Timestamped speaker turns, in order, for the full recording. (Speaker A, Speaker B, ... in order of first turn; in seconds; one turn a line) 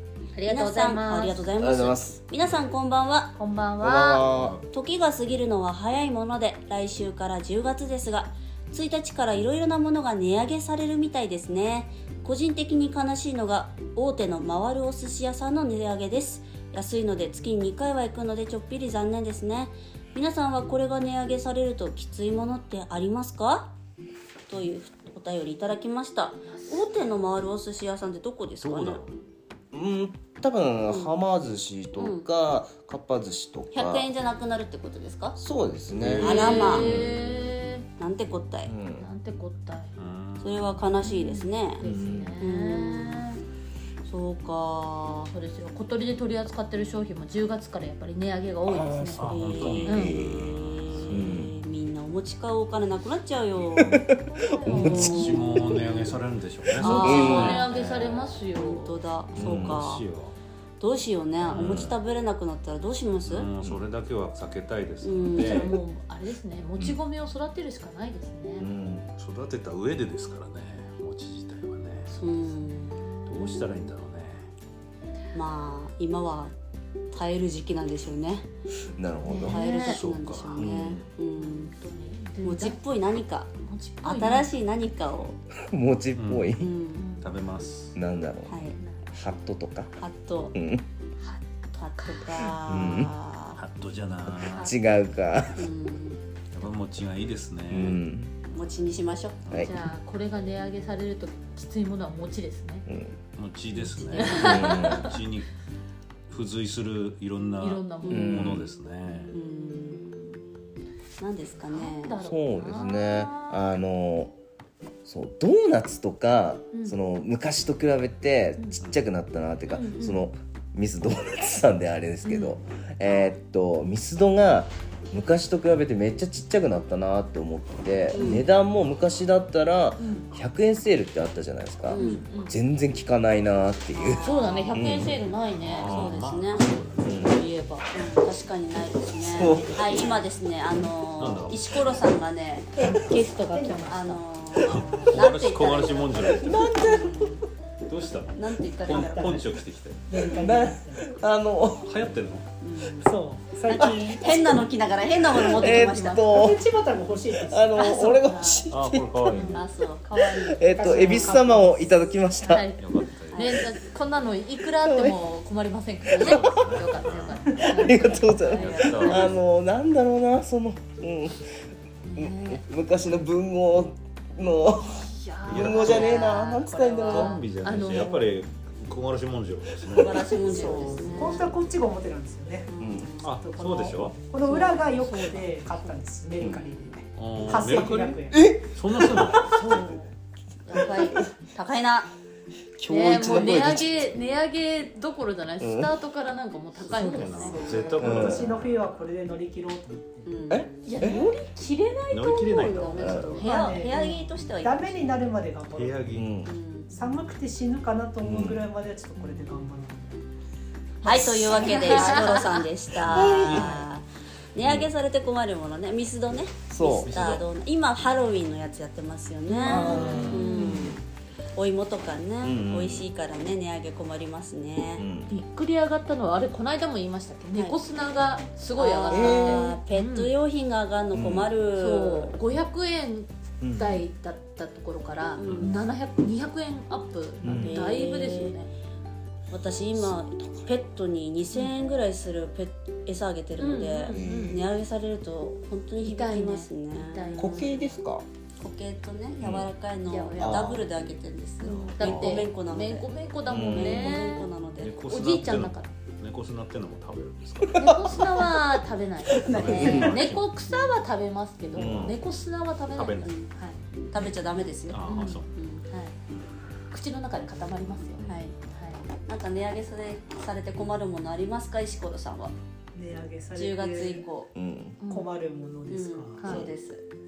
Speaker A: 0.3-1.4
Speaker B: 0.5-3.3
Speaker C: 1.6-2.2
Speaker A: 3.3-4.3
Speaker C: 3.8-4.6
Speaker B: 4.7-23.7
Speaker B: 24.5-29.0
Speaker A: 26.5-26.9
Speaker D: 28.6-29.1
Speaker C: 29.7-34.1
Speaker B: 30.9-31.2
Speaker B: 32.0-32.3
Speaker B: 33.7-35.4
Speaker C: 35.4-37.1
Speaker D: 36.0-37.3
Speaker B: 36.2-36.9
Speaker A: 36.2-37.9
Speaker B: 38.0-38.7
Speaker C: 38.6-39.1
Speaker A: 39.0-39.9
Speaker D: 40.0-40.9
Speaker B: 40.4-41.8
Speaker A: 41.0-43.4
Speaker C: 41.8-42.3
Speaker B: 42.4-43.3
Speaker B: 44.0-45.3
Speaker A: 45.3-49.3
Speaker C: 48.7-50.5
Speaker D: 49.2-51.2
Speaker B: 49.2-54.0
Speaker A: 49.8-50.2
Speaker C: 51.1-51.5
Speaker C: 53.8-54.1
Speaker A: 54.1-55.4
Speaker C: 54.6-55.3
Speaker B: 54.7-55.6
Speaker D: 54.7-58.4
Speaker C: 56.8-57.6
Speaker B: 56.8-57.7
Speaker A: 56.8-59.1
Speaker B: 58.5-60.0
Speaker C: 59.4-59.8
Speaker D: 59.4-60.4
Speaker B: 60.8-63.5
Speaker D: 61.5-61.9
Speaker C: 61.5-62.0
Speaker D: 63.2-65.7
Speaker B: 65.0-65.8
Speaker A: 65.3-68.7
Speaker C: 68.6-69.1
Speaker D: 69.2-72.2
Speaker B: 72.1-73.0
Speaker A: 72.3-73.6
Speaker D: 73.3-74.5
Speaker B: 75.3-76.5
Speaker B: 77.1-78.5
Speaker C: 78.8-79.6
Speaker A: 79.3-80.1
Speaker B: 79.5-81.8
Speaker D: 79.8-80.7
Speaker C: 80.5-81.0
Speaker A: 81.4-82.8
Speaker B: 82.4-83.5
Speaker A: 83.6-84.5
Speaker B: 84.0-85.4
Speaker C: 85.7-86.7
Speaker D: 86.2-86.6
Speaker B: 86.6-87.1
Speaker A: 87.0-87.4
Speaker D: 87.2-88.0
Speaker C: 88.0-89.9
Speaker B: 88.5-88.8
Speaker A: 88.8-89.2
Speaker B: 90.0-90.5
Speaker C: 90.5-90.8
Speaker A: 91.2-92.3
Speaker B: 91.8-93.6
Speaker C: 92.7-93.1
Speaker D: 93.6-94.7
Speaker A: 94.4-94.8
Speaker C: 94.5-95.7
Speaker B: 95.6-96.2
Speaker D: 96.5-98.0
Speaker C: 97.7-98.3
Speaker B: 98.5-99.4
Speaker A: 99.5-102.9
Speaker C: 102.9-103.2
Speaker D: 103.4-105.5
Speaker B: 103.7-104.8
Speaker A: 104.2-105.2
Speaker C: 104.2-105.2
Speaker D: 106.3-109.3
Speaker A: 107.6-108.4
Speaker B: 108.0-108.5
Speaker C: 108.1-108.7
Speaker A: 109.1-109.3
Speaker B: 109.3-110.2
Speaker B: 111.2-112.2
Speaker A: 111.7-113.7
Speaker C: 112.2-114.3
Speaker C: 115.0-135.2
Speaker A: 116.7-117.0
Speaker A: 119.7-120.2
Speaker A: 122.2-123.4
Speaker B: 128.1-128.5
Speaker A: 128.2-128.5
Speaker A: 130.0-130.3
Speaker B: 131.9-132.3
Speaker A: 132.0-132.6
Speaker B: 133.9-134.8
Speaker A: 134.2-136.1
Speaker D: 135.6-137.3
Speaker B: 135.8-142.7
Speaker C: 137.0-137.4
Speaker C: 139.3-140.1
Speaker A: 139.9-140.2
Speaker D: 141.2-142.1
Speaker E: 142.8-143.9
Speaker A: 142.8-144.2
Speaker B: 143.8-147.5
Speaker D: 144.6-146.7
Speaker C: 146.2-147.4
Speaker D: 147.9-150.1
Speaker B: 148.3-149.6
Speaker E: 148.9-149.4
Speaker E: 150.1-151.2
Speaker C: 150.2-151.9
Speaker D: 151.8-152.5
Speaker B: 152.6-153.1
Speaker E: 153.0-154.5
Speaker B: 153.7-156.3
Speaker C: 155.3-156.7
Speaker A: 155.5-156.3
Speaker E: 156.3-158.0
Speaker C: 157.3-159.5
Speaker A: 157.7-158.7
Speaker B: 158.3-158.7
Speaker D: 158.7-159.6
Speaker A: 159.3-159.6
Speaker B: 159.5-161.4
Speaker C: 160.2-162.7
Speaker E: 160.7-161.6
Speaker A: 161.0-169.3
Speaker D: 162.8-163.7
Speaker B: 163.3-163.6
Speaker C: 164.8-165.2
Speaker C: 166.1-166.5
Speaker D: 166.2-167.5
Speaker C: 167.6-171.6
Speaker B: 168.0-169.4
Speaker D: 168.5-169.3
Speaker A: 172.1-172.7
Speaker C: 172.2-177.3
Speaker A: 174.8-178.4
Speaker D: 175.5-176.2
Speaker B: 175.8-176.2
Speaker D: 177.0-180.4
Speaker B: 179.9-181.6
Speaker E: 180.2-188.5
Speaker A: 180.5-181.2
Speaker B: 182.7-183.4
Speaker C: 182.8-183.1
Speaker D: 183.2-184.2
Speaker A: 184.4-186.0
Speaker D: 187.2-189.6
Speaker C: 188.3-189.8
Speaker A: 189.4-190.1
Speaker B: 190.7-192.1
Speaker C: 190.7-191.3
Speaker C: 192.8-194.2
Speaker A: 192.9-197.9
Speaker B: 193.2-193.7
Speaker C: 195.6-195.9
Speaker D: 196.8-198.9
Speaker E: 197.2-200.3
Speaker C: 198.0-198.5
Speaker B: 200.3-201.1
Speaker C: 200.5-201.3
Speaker A: 200.8-204.4
Speaker D: 202.1-203.5
Speaker B: 202.6-205.3
Speaker C: 203.0-203.3
Speaker E: 203.4-204.0
Speaker E: 204.6-206.1
Speaker D: 205.7-206.3
Speaker C: 206.1-206.5
Speaker B: 206.4-207.0
Speaker E: 206.9-210.2
Speaker C: 208.2-208.6
Speaker B: 211.0-221.0
Speaker A: 211.0-212.7
Speaker C: 213.1-213.7
Speaker D: 213.1-213.8
Speaker C: 214.6-214.9
Speaker C: 216.7-217.2
Speaker D: 216.8-217.5
Speaker A: 219.5-220.9
Speaker C: 219.6-221.0
Speaker B: 221.5-225.1
Speaker C: 222.4-223.1
Speaker C: 225.0-225.3
Speaker A: 225.3-230.3
Speaker B: 228.8-232.3
Speaker C: 229.1-229.8
Speaker C: 231.1-231.5
Speaker A: 231.8-238.7
Speaker C: 233.6-234.0
Speaker B: 235.3-235.8
Speaker D: 235.4-235.7
Speaker C: 237.4-237.8
Speaker D: 237.4-237.8
Speaker B: 237.6-238.6
Speaker B: 239.5-247.8
Speaker C: 239.9-240.8
Speaker A: 243.6-244.6
Speaker C: 244.1-244.7
Speaker A: 246.0-248.0
Speaker C: 247.4-248.2
Speaker B: 248.6-253.1
Speaker C: 249.4-249.7
Speaker A: 250.1-250.7
Speaker C: 250.4-250.9
Speaker A: 251.6-255.9
Speaker D: 252.0-252.3
Speaker C: 253.5-254.2
Speaker B: 253.7-254.9
Speaker D: 254.8-258.0
Speaker C: 257.6-258.3
Speaker A: 257.8-263.8
Speaker B: 259.4-260.2
Speaker D: 259.4-260.5
Speaker C: 259.5-260.1
Speaker C: 261.7-262.2
Speaker D: 262.9-263.4
Speaker B: 264.1-265.9
Speaker D: 264.9-265.5
Speaker A: 265.0-266.1
Speaker A: 266.9-269.0
Speaker C: 268.2-268.4
Speaker B: 268.3-268.6
Speaker B: 269.3-272.5
Speaker E: 272.9-274.3
Speaker B: 273.5-274.5
Speaker C: 274.5-275.0
Speaker A: 275.0-275.3
Speaker E: 275.1-276.4
Speaker B: 275.9-277.0
Speaker A: 276.4-276.7